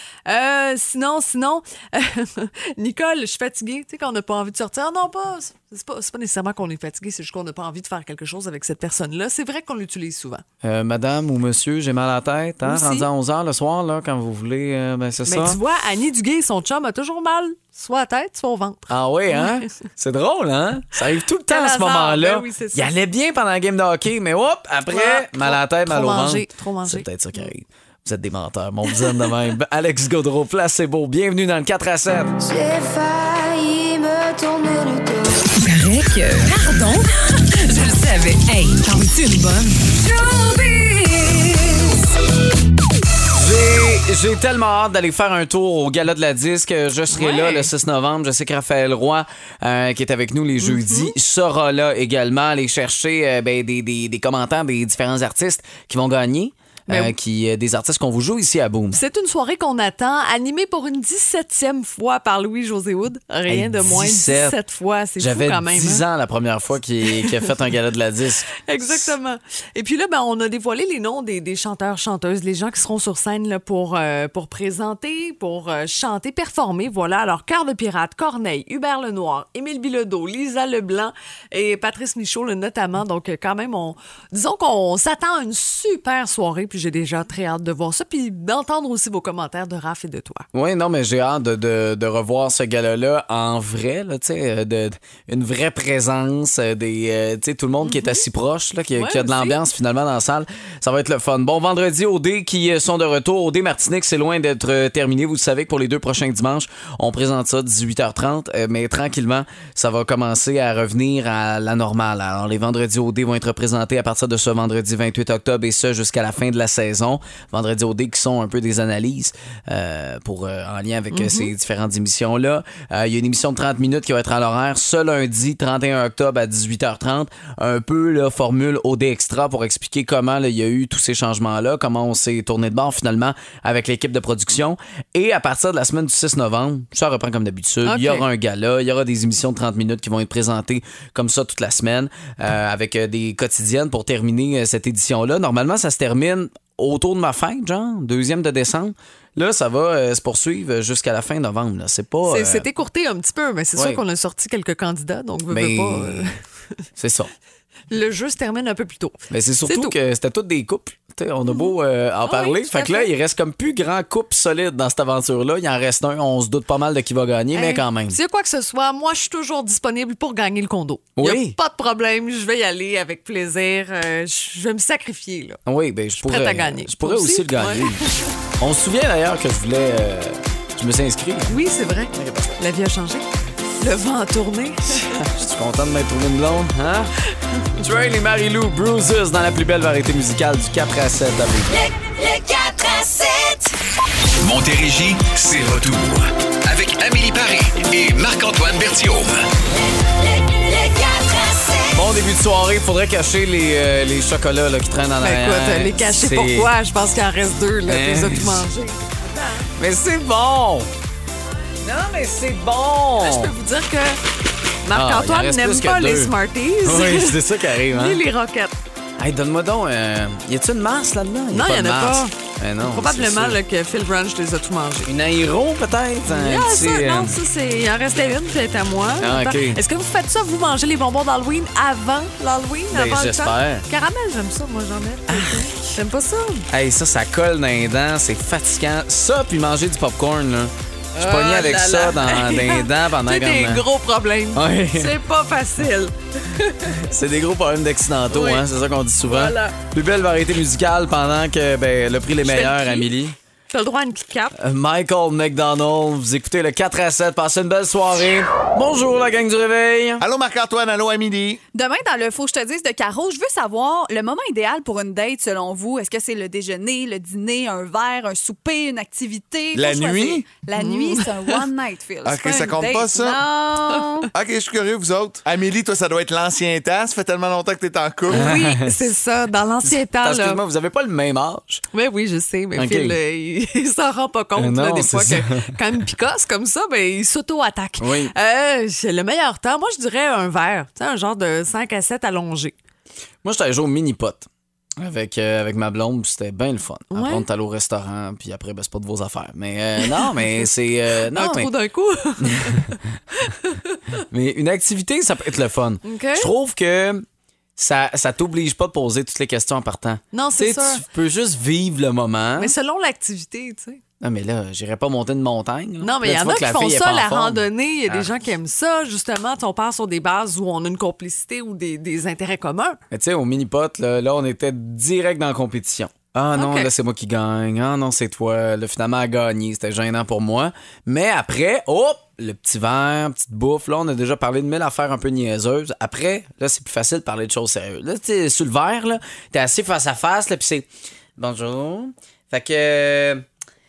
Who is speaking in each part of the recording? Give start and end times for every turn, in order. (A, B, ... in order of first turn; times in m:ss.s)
0:00.3-0:10.4 A
0:10.6-0:15.6 B
0:12.6-0:13.1 A
0:15.3-0:19.6 A
0:18.9-0:32.4 B
0:21.5-0:22.9 A
0:24.9-0:27.5 A
0:32.4-0:35.5 C
0:35.6-0:37.1 A
0:37.7-0:39.7 A
0:38.3-0:38.9 C
0:39.9-0:41.8 C
0:43.3-0:59.0 B
0:47.1-0:47.7 A
0:50.6-0:51.1 A
0:56.9-0:57.1 A
0:58.9-1:06.0 A
1:03.5-1:04.6 B
1:05.2-1:09.1 B
1:07.1-1:07.5 A
1:08.6-1:30.5 A
1:30.5-2:32.7 B
1:37.8-1:38.2 A
1:39.0-1:39.6 A
2:01.1-2:01.5 A
2:17.8-2:18.3 A
2:32.3-2:36.4 A
2:33.8-2:34.0 B
2:35.5-2:36.3 B
2:37.0-2:37.3 B
2:37.9-2:40.0 A
2:39.3-2:48.2 B
2:42.2-2:43.1 A
2:47.5-2:55.6 A
2:51.2-2:51.6 B
2:55.7-2:58.0 B
2:56.2-2:58.3 A
2:58.6-3:01.6 B
3:01.5-3:03.3 A
3:02.1-3:02.6 B
3:03.8-3:05.2 A
3:04.9-3:07.1 B
3:07.8-3:11.7 B
3:11.7-3:13.8 C
3:14.4-3:19.5 D
3:19.7-3:22.1 C
3:21.9-3:26.7 B
3:25.2-3:29.7 A
3:27.8-3:28.6 B
3:29.8-3:30.9 B
3:31.8-3:33.5 B
3:33.2-3:34.2 A
3:34.8-3:38.7 A
3:34.9-3:38.2 B
3:39.2-3:43.6 B
3:41.5-3:42.3 A
3:42.9-3:45.1 A
3:45.0-3:47.4 B
3:46.3-3:56.7 A
3:49.2-3:49.8 B
3:52.9-3:53.8 B
3:55.3-3:55.9 B
3:56.7-4:03.8 B
4:01.2-4:07.0 A
4:04.5-4:05.2 B
4:07.0-4:13.4 B
4:08.3-4:08.6 A
4:09.3-4:09.8 A
4:12.4-4:13.1 A
4:13.7-4:14.6 A
4:14.6-4:20.2 B
4:20.2-4:21.6 E
4:21.7-4:34.3 F
4:29.7-4:30.5 E
4:30.8-4:31.6 A
4:32.2-4:33.4 E
4:34.3-4:38.5 E
4:38.3-4:40.6 A
4:38.3-4:39.0 B
4:40.0-4:41.8 B
4:41.9-4:52.8 A
4:42.8-4:43.2 B
4:44.6-4:45.7 B
4:48.0-4:48.3 B
4:53.4-5:01.7 B
4:57.1-4:57.5 A
5:00.0-5:00.6 A
5:01.3-5:04.0 A
5:02.4-5:03.0 B
5:04.3-5:07.2 B
5:06.0-5:06.5 A
5:07.8-5:12.8 B
5:10.3-5:11.0 A
5:12.6-5:14.0 A
5:14.2-5:18.4 B
5:16.0-5:23.0 A
5:23.1-5:43.4 B
5:26.6-5:26.9 A